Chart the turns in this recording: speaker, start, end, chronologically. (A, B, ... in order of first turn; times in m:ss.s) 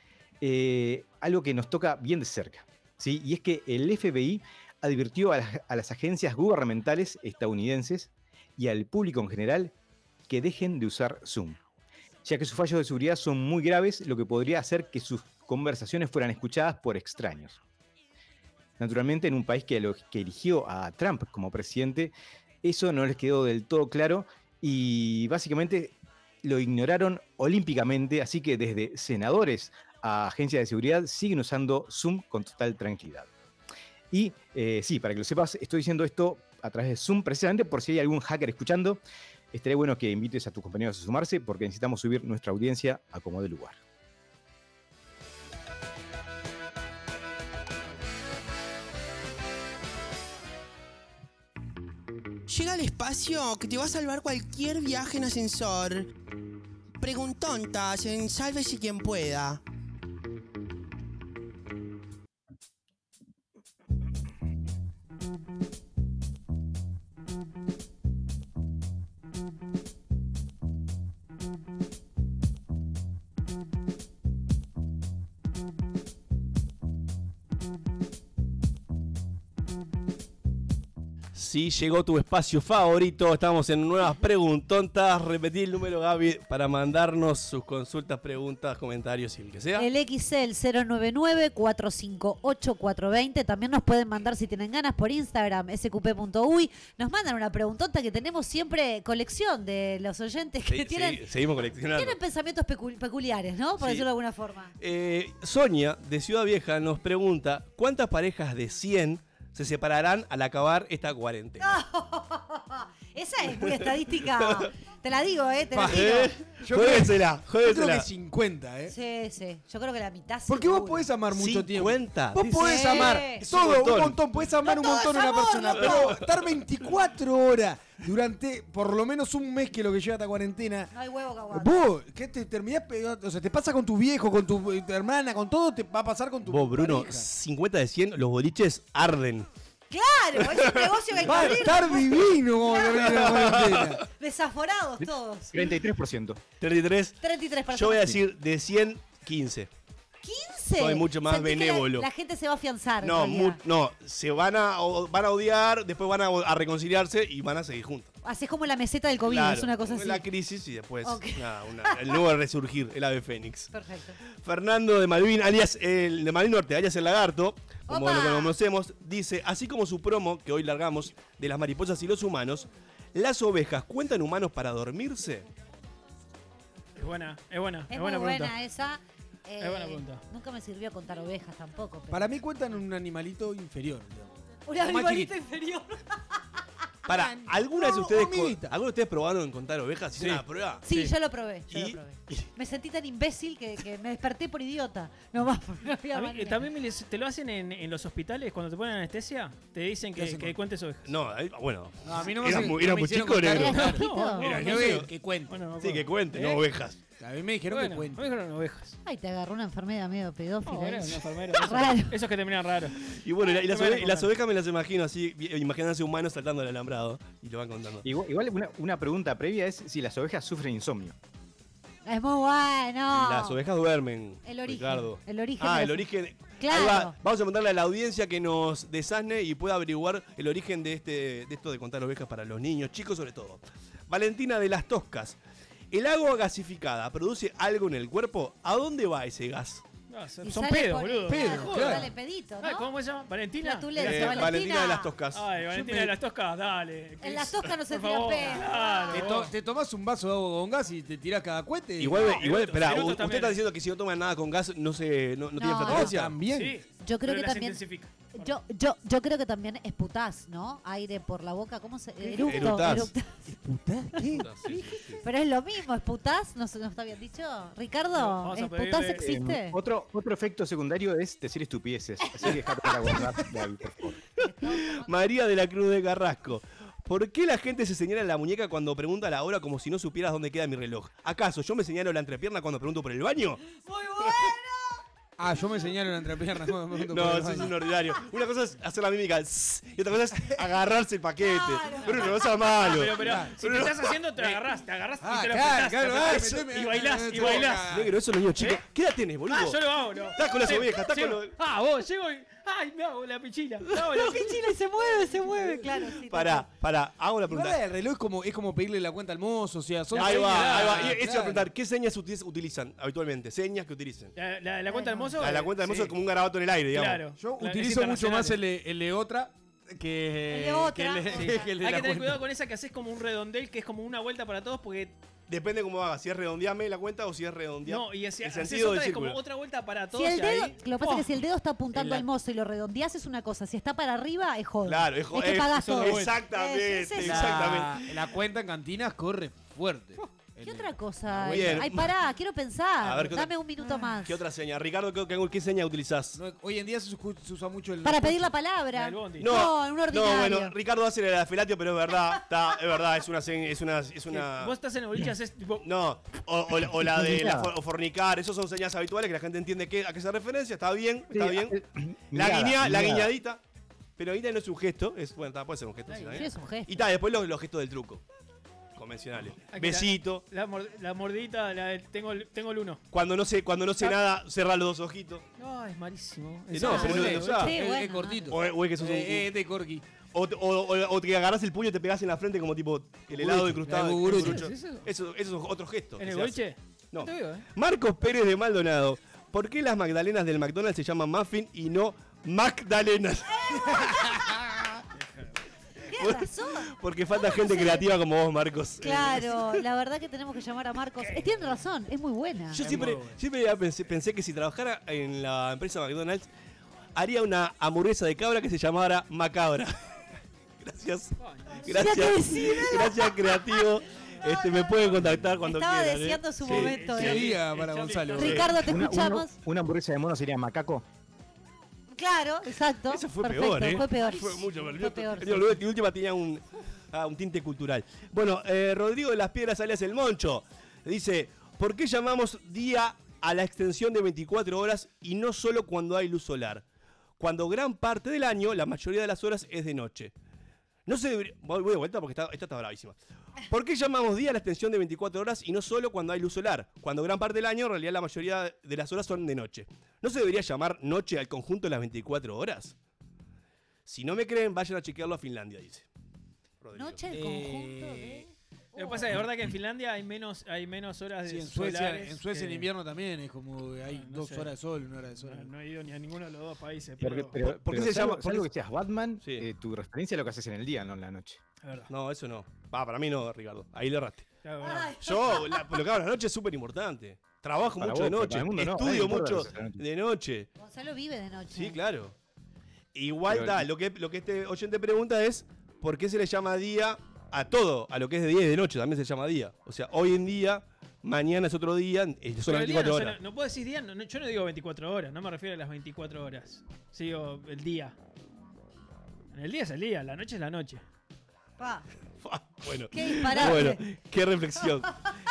0:00.4-0:09.7 A
0:10.3-0:11.6 A
0:12.2-0:17.6 A
0:18.8-0:33.3 A
0:34.1-0:39.0 A
0:39.5-0:43.8 A
0:52.5-0:56.0 B
0:57.0-0:59.6 B
1:21.3-1:29.9 C
1:29.8-1:41.2 D
1:40.6-1:42.2 C
1:41.9-1:44.7 D
1:43.8-1:44.1 C
1:44.8-1:51.8 C
1:51.6-1:56.3 D
1:53.5-1:54.6 C
1:55.7-1:58.9 E
1:55.8-1:58.1 C
1:58.9-2:01.1 D
2:00.5-2:10.9 E
2:01.3-2:04.2 C
2:02.5-2:03.4 D
2:04.6-2:06.2 D
2:05.8-2:06.1 C
2:10.9-2:11.7 D
2:11.5-2:17.3 E
2:16.5-2:19.5 C
2:19.9-2:25.7 D
2:20.4-2:21.4 C
2:21.2-2:24.0 E
2:23.0-2:23.9 C
2:25.5-2:26.4 A
2:26.6-2:29.7 C
2:27.2-2:28.2 D
2:30.2-2:33.6 D
2:30.8-2:32.1 C
2:33.0-2:38.1 C
2:38.2-2:40.2 D
2:39.2-2:43.7 C
2:41.0-2:42.2 D
2:43.7-2:44.2 D
2:44.2-2:55.4 C
2:47.9-2:48.5 D
2:57.0-2:58.5 F
2:57.9-3:02.4 D
2:59.6-3:00.2 F
3:02.1-3:05.3 E
3:04.7-3:06.4 D
3:07.0-3:07.4 D
3:07.0-3:10.8 C
3:07.8-3:08.7 E
3:10.2-3:10.4 E
3:10.8-3:16.6 D
3:11.7-3:12.5 C
3:16.1-3:21.1 F
3:20.1-3:20.6 E
3:21.0-3:25.1 C
3:22.0-3:25.6 E
3:23.4-3:24.6 D
3:23.7-3:26.6 F
3:25.8-3:27.0 C
3:27.2-3:28.2 E
3:27.7-3:29.0 F
3:29.0-3:32.2 D
3:30.6-3:33.0 F
3:33.0-3:38.0 C
3:33.7-3:34.3 F
3:38.0-3:41.2 A
3:42.0-3:43.6 D
3:43.1-3:55.4 C
3:44.4-3:46.1 D
3:46.6-3:47.1 D
3:55.9-3:59.8 C
4:00.1-4:04.6 F
4:00.4-4:02.9 D
4:01.3-4:02.1 E
4:03.6-4:05.1 D
4:04.0-4:06.1 C
4:05.3-4:09.5 F
4:07.2-4:09.3 D
4:09.1-4:12.3 E
4:12.0-4:16.4 C
4:12.2-4:13.6 F
4:15.6-4:16.1 D
4:15.7-4:16.8 E
4:16.5-4:18.5 F
4:17.0-4:17.8 D
4:18.3-4:23.4 D
4:22.4-4:23.1 C
4:23.5-4:24.5 E
4:24.2-4:29.8 D
4:24.4-4:25.2 C
4:28.1-4:29.3 F
4:29.2-4:34.2 A
4:32.4-4:33.3 D
4:34.4-4:35.2 D
4:34.6-4:43.6 C
4:43.8-4:45.0 D
4:45.4-4:47.7 E
4:47.0-4:54.1 C
4:51.4-4:52.4 D
4:52.8-4:57.9 F
4:53.1-4:53.5 E
4:55.2-4:58.1 E
4:56.2-4:56.5 C
4:57.9-5:01.5 C
4:59.5-5:04.6 F
5:04.1-5:06.6 D
5:06.2-5:07.8 C
5:07.5-5:11.7 E
5:10.1-5:14.3 C
5:10.2-5:11.1 F
5:14.4-5:16.1 F
5:14.9-5:15.3 D
5:15.4-5:17.2 C
5:16.9-5:18.6 F
5:17.4-5:22.4 E
5:20.5-5:21.6 D
5:21.3-5:25.1 F
5:25.5-5:29.4 C
5:27.8-5:31.3 F
5:30.1-5:37.8 D
5:34.8-5:38.2 C
5:35.7-5:36.4 F
5:37.2-5:40.9 E
5:40.6-5:44.4 D
5:41.4-5:42.1 C
5:41.4-5:41.8 E
5:43.0-5:43.5 C
5:44.2-5:46.4 C
5:46.3-5:48.5 E
5:48.0-5:50.7 D
5:48.9-5:49.5 F
5:49.4-5:54.7 C
5:54.3-5:55.8 F
5:55.8-6:01.8 C
5:57.0-5:57.7 A
6:01.3-6:03.3 A
6:02.3-6:03.6 C
6:04.2-6:08.2 C
6:06.1-6:06.4 F
6:06.3-6:06.9 D
6:09.0-6:10.4 C
6:09.7-6:13.0 F
6:13.1-6:15.4 C
6:15.6-6:17.6 F
6:16.7-6:17.7 C
6:16.8-6:18.5 D
6:17.0-6:20.0 E
6:18.5-6:19.5 C
6:20.3-6:26.6 C
6:23.3-6:24.7 E
6:24.3-6:25.0 F
6:26.2-6:27.6 F
6:27.1-6:33.6 C
6:33.6-6:34.5 D
6:35.2-6:35.5 F
6:36.1-6:38.1 D
6:36.2-6:39.8 C
6:39.0-6:42.8 D
6:41.2-6:41.7 F
6:42.7-6:46.5 C
6:42.8-6:43.3 F
6:47.2-6:50.1 C
6:50.8-6:56.9 C
6:51.4-6:51.9 F
6:51.9-6:53.9 D
6:54.4-6:57.5 D
6:56.6-6:58.7 F
6:56.8-6:58.8 E
6:58.4-6:58.7 C
6:58.4-6:59.5 D
6:58.8-7:01.0 A
7:02.1-7:05.8 D
7:03.1-7:16.8 C
7:17.4-7:20.3 C
7:21.0-7:32.9 C
7:34.0-7:36.1 C
7:36.8-7:37.2 C
7:36.9-7:38.4 D
7:37.3-7:38.4 E
7:38.9-7:42.9 F
7:41.4-7:45.7 E
7:44.1-7:44.7 F
7:45.4-7:47.6 F
7:47.2-7:51.6 A
7:47.6-7:48.7 C
7:51.8-7:52.1 F
7:52.1-7:54.5 C
7:54.6-7:55.1 F
7:54.8-7:56.0 D
7:55.2-8:00.7 C
7:58.0-8:00.0 A
8:00.8-8:02.0 D
8:01.7-8:02.3 C
8:03.1-8:13.4 C
8:03.5-8:03.9 A
8:12.6-8:18.2 F
8:19.5-8:21.0 F
8:21.8-8:22.0 D
8:22.4-8:25.1 C
8:23.1-8:24.0 D